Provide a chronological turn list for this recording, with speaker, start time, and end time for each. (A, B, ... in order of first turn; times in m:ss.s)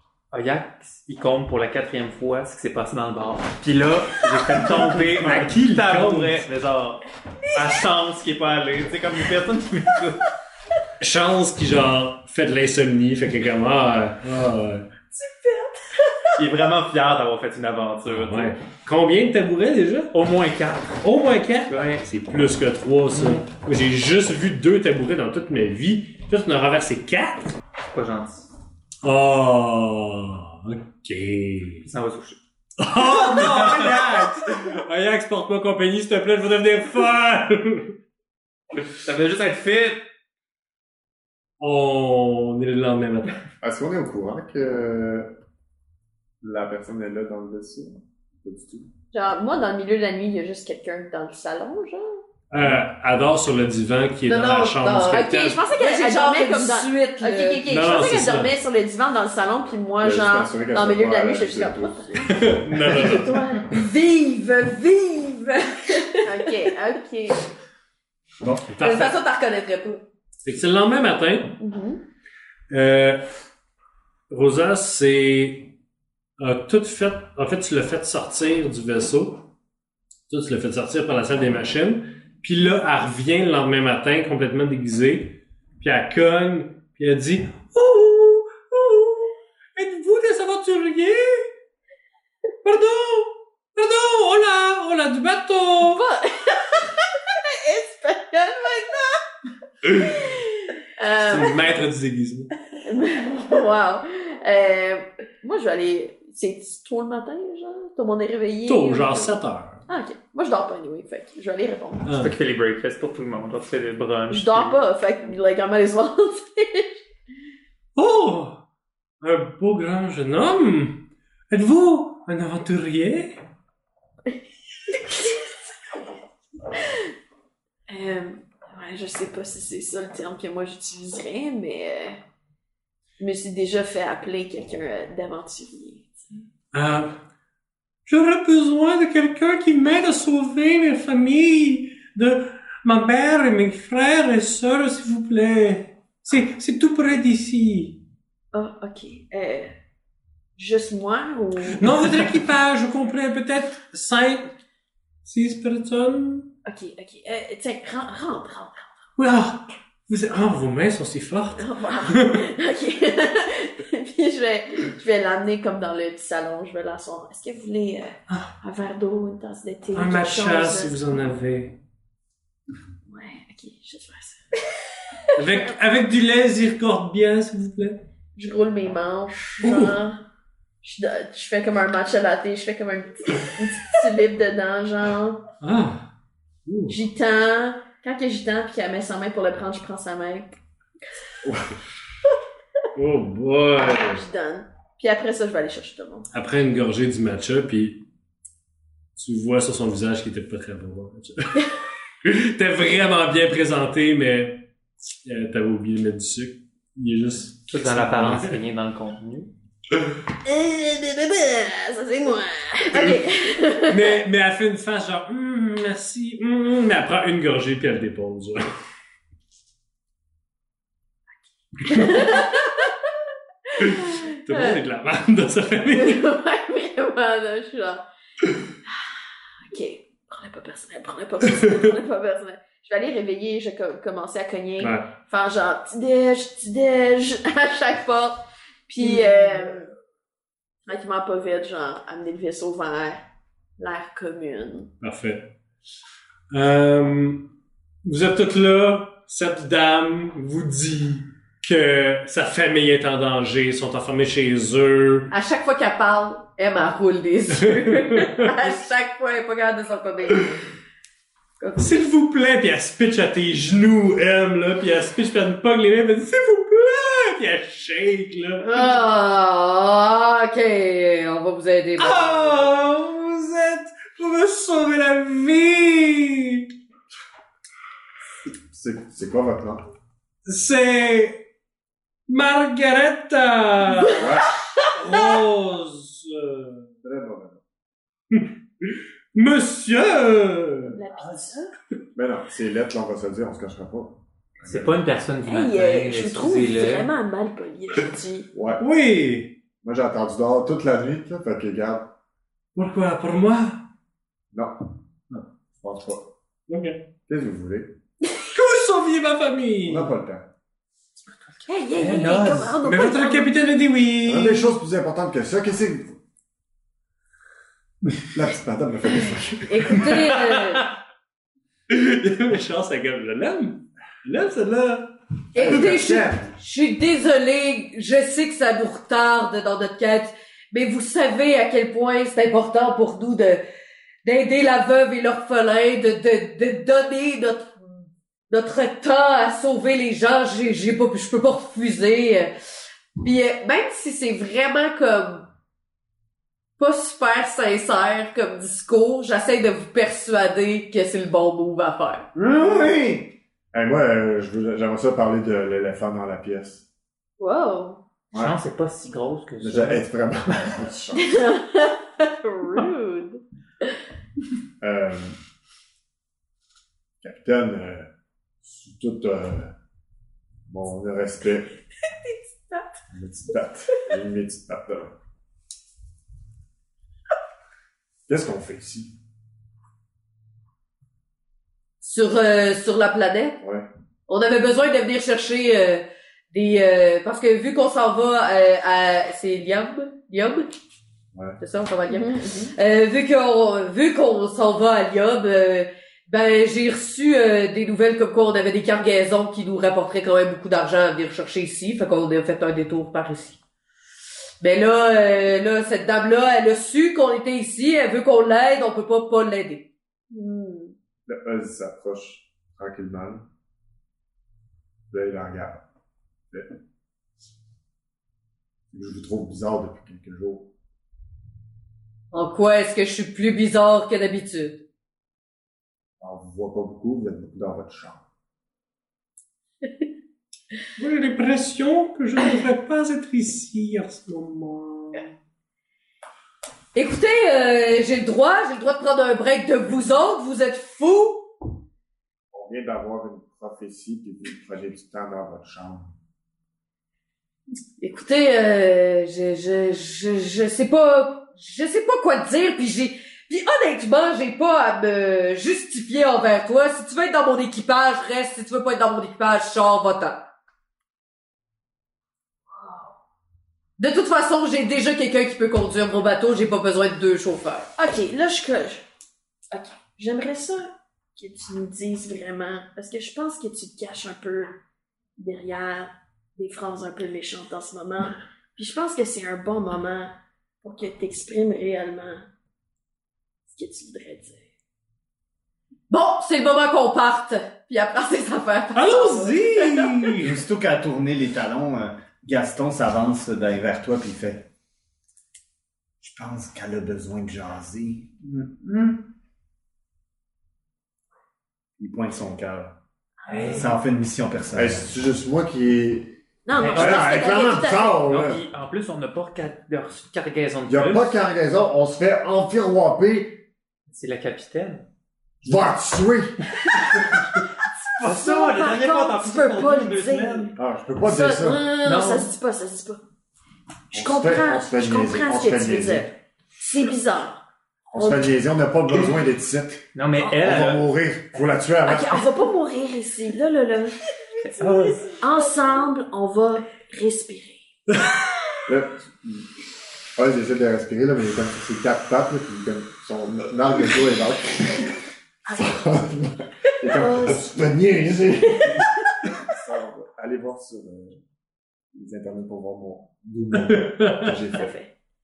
0:00.3-0:07.0 A
0:04.7-0:06.4 B
0:07.5-0:10.2 A
0:11.0-0:14.9 B
0:15.2-0:15.7 C
0:16.4-0:18.6 A
0:18.1-0:20.1 B
0:20.1-0:21.0 A
0:21.0-0:27.6 B
0:21.7-0:22.0 A
0:23.1-0:23.4 A
0:27.9-0:28.5 A
0:29.0-0:31.8 B
0:31.8-0:32.4 A
0:32.8-0:37.9 B
0:32.9-0:34.4 A
0:39.0-0:40.0 A
0:41.6-0:43.4 B
0:43.6-0:45.3 D
0:46.4-0:48.9 D
0:49.1-0:52.2 C
0:52.5-0:55.6 B
0:54.3-0:57.6 E
0:55.1-1:03.9 C
0:57.7-0:58.6 B
1:00.0-1:02.3 D
1:02.3-1:03.5 B
1:03.7-1:06.7 E
1:06.2-1:07.4 C
1:08.7-1:09.2 B
1:08.8-1:10.0 E
1:10.4-1:11.6 B
1:11.6-1:12.0 C
1:12.7-1:13.2 B
1:14.3-1:15.7 B
1:16.4-1:19.5 B
1:20.3-1:31.5 B
1:32.6-1:36.0 B
1:35.8-1:39.2 C
1:40.0-1:41.7 C
1:41.2-1:42.5 B
1:42.8-1:49.4 C
1:48.7-1:49.8 B
1:49.9-1:52.1 C
1:52.1-1:52.4 B
1:52.2-1:54.8 A
1:54.3-1:57.0 C
1:58.0-1:58.6 B
1:59.2-2:03.4 B
2:04.9-2:05.6 C
2:07.9-2:12.2 C
2:13.2-2:16.4 C
2:16.7-2:17.1 B
2:18.1-2:28.0 B
2:28.5-2:29.7 C
2:30.6-2:31.9 C
2:31.8-2:34.5 B
2:35.2-2:36.5 B
2:36.6-2:38.9 C
2:39.2-2:42.5 B
2:41.6-2:51.2 C
2:49.9-2:51.8 B
2:53.1-2:54.6 C
2:55.4-2:58.0 B
2:55.4-2:55.7 C
2:58.4-3:00.2 C
2:59.6-3:00.0 B
3:00.8-3:05.4 C
3:05.6-3:06.0 B
3:06.7-3:07.0 B
3:06.9-3:10.6 C
3:13.0-3:14.2 B
3:13.8-3:16.3 C
3:16.3-3:18.0 B
3:19.2-3:24.6 B
3:25.2-3:28.6 B
3:27.7-3:29.5 A
3:30.4-3:34.1 C
3:33.9-3:38.6 B
3:41.8-3:42.9 C
3:41.9-3:42.3 B
3:43.8-3:44.8 C
3:43.8-3:46.2 B
3:45.9-3:48.0 C
3:48.9-3:49.2 C
3:49.7-3:59.9 C
3:54.8-3:55.1 B
4:00.9-4:03.2 C
4:03.8-4:04.9 C
4:05.0-4:05.5 B
4:06.5-4:07.5 B
4:08.0-4:15.3 B
4:15.3-4:20.6 E
4:17.7-4:18.5 B
4:21.6-4:22.0 E
4:21.8-4:28.9 B
4:28.6-4:32.6 E
4:32.0-4:36.7 B
4:38.7-4:39.8 D
4:40.5-4:41.4 B
4:42.3-4:44.3 B
4:44.1-4:44.5 D
4:44.9-4:46.9 B
4:47.0-4:47.6 D
4:48.3-4:51.5 B
4:50.9-4:51.7 C
4:52.2-4:55.0 D
4:54.6-4:57.1 A
4:55.5-4:58.5 C
4:58.5-4:58.8 D
4:58.8-4:59.5 B
4:59.8-5:02.1 D
5:02.8-5:03.8 B
5:04.5-5:04.8 D
5:05.8-5:06.3 D
5:06.7-5:07.0 B
5:07.3-5:07.9 D
5:08.5-5:10.1 B
5:09.8-5:10.4 D
5:11.7-5:13.5 C
5:12.0-5:14.8 B
5:14.2-5:16.2 D
5:18.3-5:20.2 D
5:19.7-5:20.9 E
5:19.9-5:20.9 B
5:21.9-5:25.1 B
5:25.5-5:33.6 E
5:25.6-5:26.5 D
5:34.2-5:37.8 E
5:38.5-5:42.5 E
5:43.2-5:45.5 E
5:46.8-5:52.3 E
5:52.4-5:53.3 F
5:53.7-5:56.8 D
5:57.4-5:58.0 C
5:58.3-6:00.1 A
5:59.6-6:01.4 D
6:01.2-6:03.4 C
6:04.8-6:05.4 D
6:07.2-6:08.1 D
6:08.6-6:09.7 D
6:10.7-6:11.7 D
6:12.1-6:13.0 C
6:13.1-6:15.1 D
6:18.3-6:19.1 D
6:22.0-6:23.6 E
6:23.6-6:23.9 D
6:24.3-6:30.7 E
6:31.6-6:43.6 E
6:32.1-6:32.7 C
6:44.6-6:49.9 E
6:50.3-6:51.0 C
6:51.3-6:53.4 D
6:55.1-6:55.8 D
6:58.9-7:00.7 D
7:02.3-7:04.8 E
7:06.2-7:08.2 D
7:11.0-7:15.3 B
7:17.0-7:21.5 E
7:22.5-7:26.1 D
7:28.0-7:40.4 E
7:42.7-7:43.1 C
7:44.0-7:47.9 E
7:48.0-7:49.1 C
7:49.7-7:54.8 C
7:55.4-8:02.5 C
8:03.7-8:04.7 C
8:06.1-8:10.1 E
8:09.0-8:10.6 B
8:10.4-8:14.6 F
8:16.2-8:19.2 F
8:22.0-8:22.9 F
8:23.5-8:23.9 C
8:23.5-8:23.8 A
8:23.6-8:25.1 F
8:24.8-8:26.3 D
8:26.7-8:28.2 C
8:26.8-8:27.6 A
8:27.0-8:28.6 D
8:28.2-8:31.4 A
8:30.9-8:33.6 D
8:34.1-8:35.0 A
8:35.6-8:36.6 D
8:38.0-8:43.2 C
8:38.2-8:40.7 A
8:40.8-8:41.9 D
8:42.0-8:42.5 A
8:44.1-8:46.3 D
8:44.1-8:47.6 C
8:48.1-8:52.4 D
8:48.2-8:48.5 C
8:50.2-8:51.6 A
8:52.0-8:54.2 C
8:54.6-8:55.3 A
8:54.8-8:58.2 C
8:58.9-8:59.7 D
9:00.4-9:05.1 D
9:05.7-9:06.2 C
9:05.7-9:11.4 D
9:07.0-9:07.8 C
9:08.8-9:09.1 C
9:12.1-9:14.9 D
9:13.8-9:14.5 B
9:14.7-9:15.1 C